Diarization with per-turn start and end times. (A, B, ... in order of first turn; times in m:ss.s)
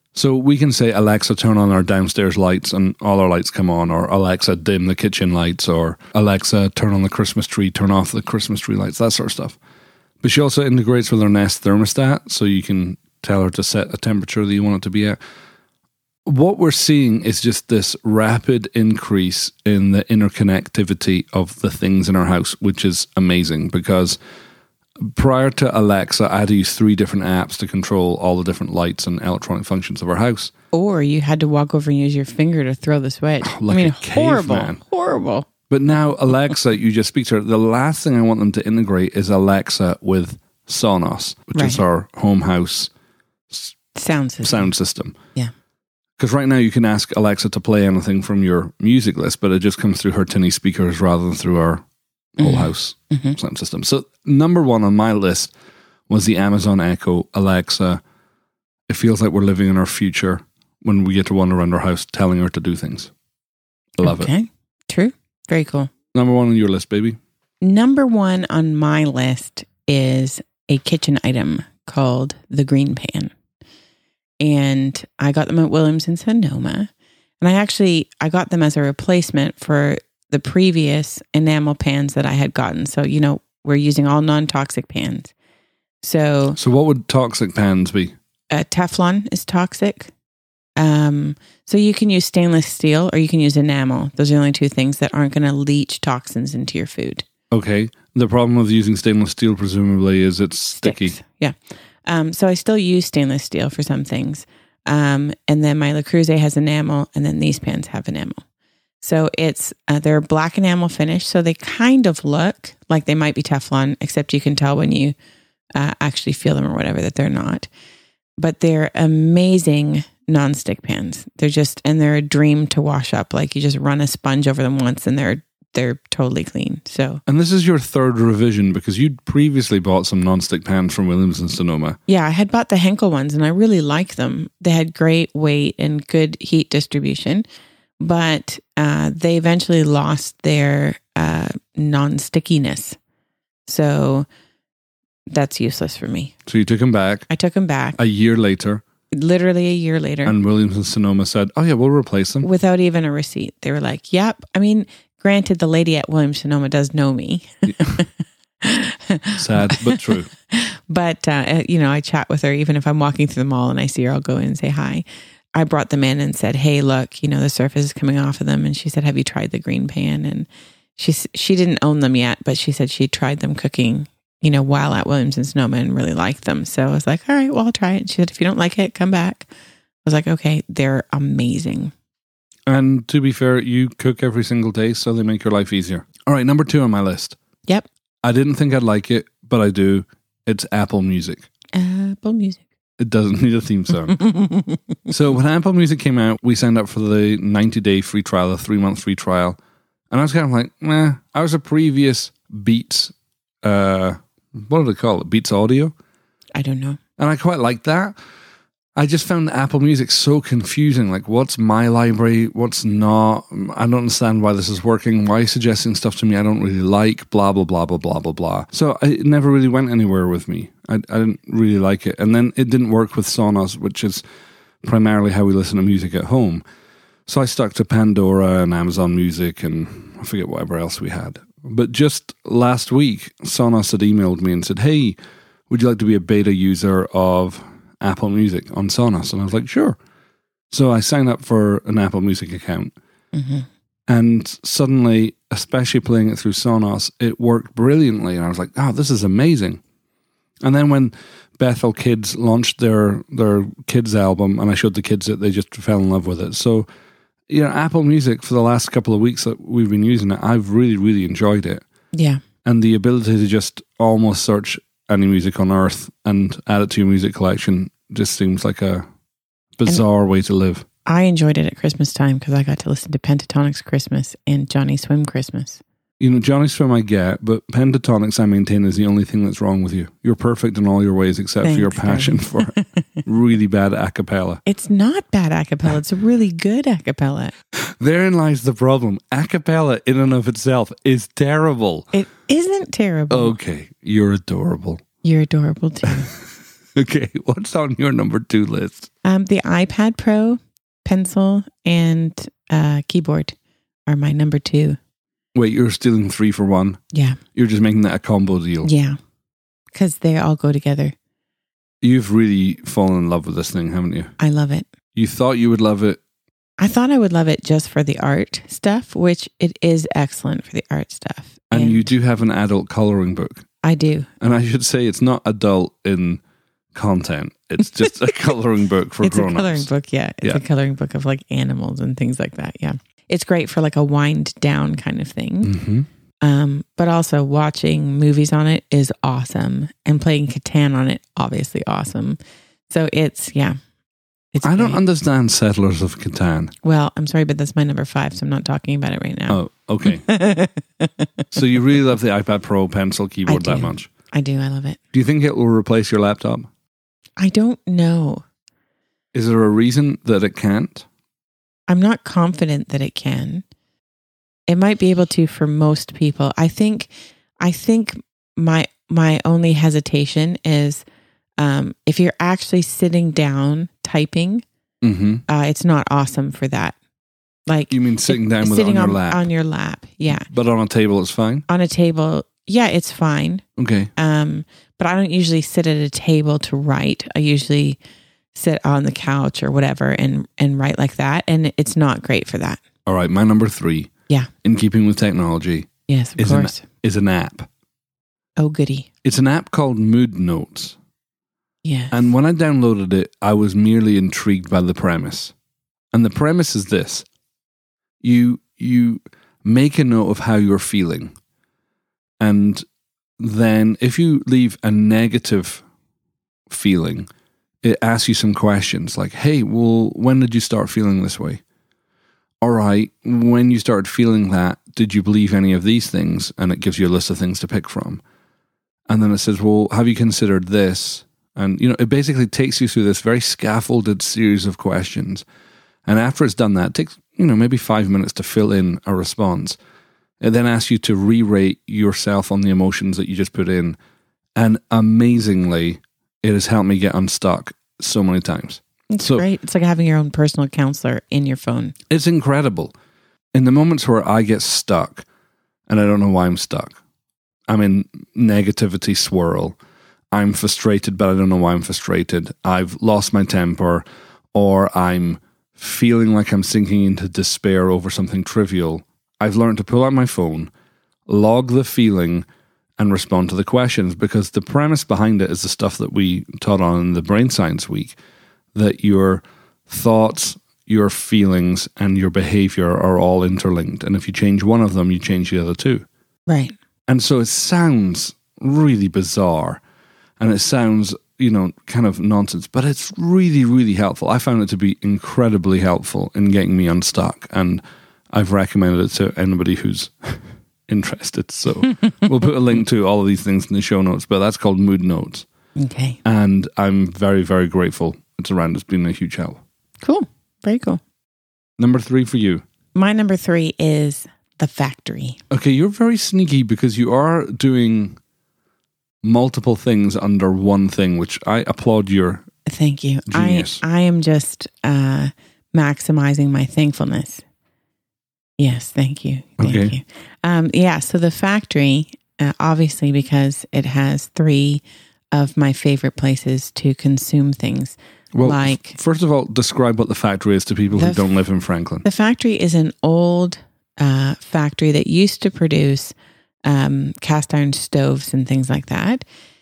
0:00.1-0:09.6 A
0:10.2-0:15.2 A
0:16.2-0:24.2 A
0:25.0-0:30.5 A
0:30.7-0:35.5 B
0:33.4-0:34.8 A
0:35.7-0:42.9 A
0:41.5-0:41.8 B
0:43.5-0:43.7 A
0:43.9-0:44.7 B
0:44.4-0:45.2 A
0:46.2-0:51.8 A
0:52.4-0:55.5 A
0:52.4-0:53.4 B
0:56.1-0:58.0 A
0:58.9-1:03.1 A
1:04.0-1:04.3 A
1:04.0-1:05.9 B
1:06.1-1:07.2 A
1:07.6-1:13.3 B
1:14.4-1:16.9 B
1:17.4-1:25.3 B
1:26.0-1:26.6 B
1:26.6-1:28.1 A
1:28.5-1:30.1 B
1:30.8-1:37.2 B
1:37.5-1:41.2 A
1:40.8-1:48.4 B
1:49.0-1:55.1 B
1:55.7-1:57.7 B
1:58.4-2:07.2 B
2:07.3-2:12.0 A
2:12.1-2:17.4 B
2:18.0-2:23.0 B
2:23.7-2:24.3 B
2:25.3-2:26.3 B
2:26.4-2:27.3 A
2:27.3-2:28.0 B
2:28.0-2:28.8 A
2:29.1-2:30.3 B
2:30.2-2:32.5 A
2:32.4-2:38.1 B
2:38.6-2:45.0 B
2:39.4-2:40.3 A
2:45.5-2:59.5 B
3:00.0-3:01.9 B
3:02.7-3:07.4 A
3:08.2-3:11.5 A
3:11.7-3:12.6 B
3:13.0-3:14.2 A
3:14.2-3:14.8 B
3:15.1-3:19.6 A
3:20.1-3:25.9 A
3:26.5-3:27.0 B
3:27.2-3:28.1 A
3:29.0-3:44.2 A
3:44.8-3:46.6 A
3:47.3-3:55.2 A
3:55.7-4:00.0 A
4:00.7-4:02.9 A
4:03.3-4:03.7 B
4:04.1-4:09.8 A
4:10.6-4:16.9 A
4:17.5-4:21.8 A
4:22.1-4:22.4 B
4:22.6-4:29.0 A
4:29.8-4:30.8 A
4:31.0-4:35.8 B
4:36.2-4:44.6 A
4:41.6-4:43.0 B
4:44.6-4:47.5 B
4:47.8-4:52.1 A
4:52.1-4:53.5 B
4:53.3-4:55.0 A
4:55.2-4:56.3 B
4:56.9-4:59.1 A
4:59.2-5:03.5 B
5:04.0-5:05.0 B
5:05.5-5:07.0 A
5:07.1-5:07.4 B
5:07.5-5:08.9 A
5:08.8-5:09.2 B
5:09.9-5:11.1 B
5:12.0-5:14.3 A
5:14.4-5:14.8 B
5:15.1-5:16.2 A
5:16.8-5:22.1 B
5:21.7-5:23.6 A
5:23.8-5:24.3 B
5:24.4-5:26.4 A
5:26.9-5:29.9 A
5:29.2-5:35.7 B
5:35.6-5:36.1 A
5:36.4-5:42.4 B
5:42.9-5:43.8 B
5:44.5-5:45.0 B
5:44.6-5:46.7 A
5:46.8-5:51.3 B
5:49.5-5:50.3 A
5:51.5-5:54.1 A
5:53.5-5:55.0 B
5:55.1-5:56.7 A
5:57.4-5:58.4 B
5:59.3-6:01.0 A
6:01.9-6:03.6 B
6:04.7-6:11.0 B
6:11.6-6:14.6 B
6:15.0-6:15.4 A
6:15.5-6:17.0 B
6:17.7-6:20.5 B
6:17.9-6:19.5 A
6:20.3-6:21.6 A
6:21.7-6:23.6 B
6:23.8-6:24.1 A
6:24.2-6:28.0 B
6:28.5-6:32.8 B
6:33.0-6:34.1 A
6:34.6-6:37.7 A
6:36.1-6:36.8 B
6:38.6-6:39.1 B
6:39.2-6:41.0 A
6:41.8-6:42.3 B
6:42.1-6:45.5 A
6:46.1-6:47.2 A
6:48.2-6:51.3 A
6:52.4-6:52.8 A
6:53.4-6:55.8 A
6:56.7-6:57.3 A
6:57.8-7:01.6 A
7:02.6-7:08.2 A
7:09.1-7:15.4 A
7:16.0-7:19.8 A
7:20.4-7:24.0 A
7:24.6-7:29.4 A
7:29.1-7:31.9 B
7:32.1-7:32.9 A
7:33.5-7:35.2 A
7:35.9-7:37.0 A
7:37.7-7:39.8 A
7:40.3-7:50.7 A
7:51.3-7:52.4 A
7:53.0-7:58.2 A
7:58.7-8:06.0 A
8:06.5-8:06.7 B
8:07.1-8:09.8 A
8:10.4-8:25.4 A
8:25.8-8:26.2 B
8:26.2-8:29.6 A
8:30.0-8:31.0 B
8:31.8-8:32.6 A
8:32.9-8:35.4 B
8:35.5-8:38.2 A
8:39.2-8:42.5 A
8:42.6-8:47.4 B
8:43.3-8:43.8 A
8:48.6-8:59.0 B
8:49.6-8:49.9 A
8:58.3-9:02.0 A
9:00.9-9:01.3 B
9:02.0-9:06.1 B
9:06.6-9:09.2 B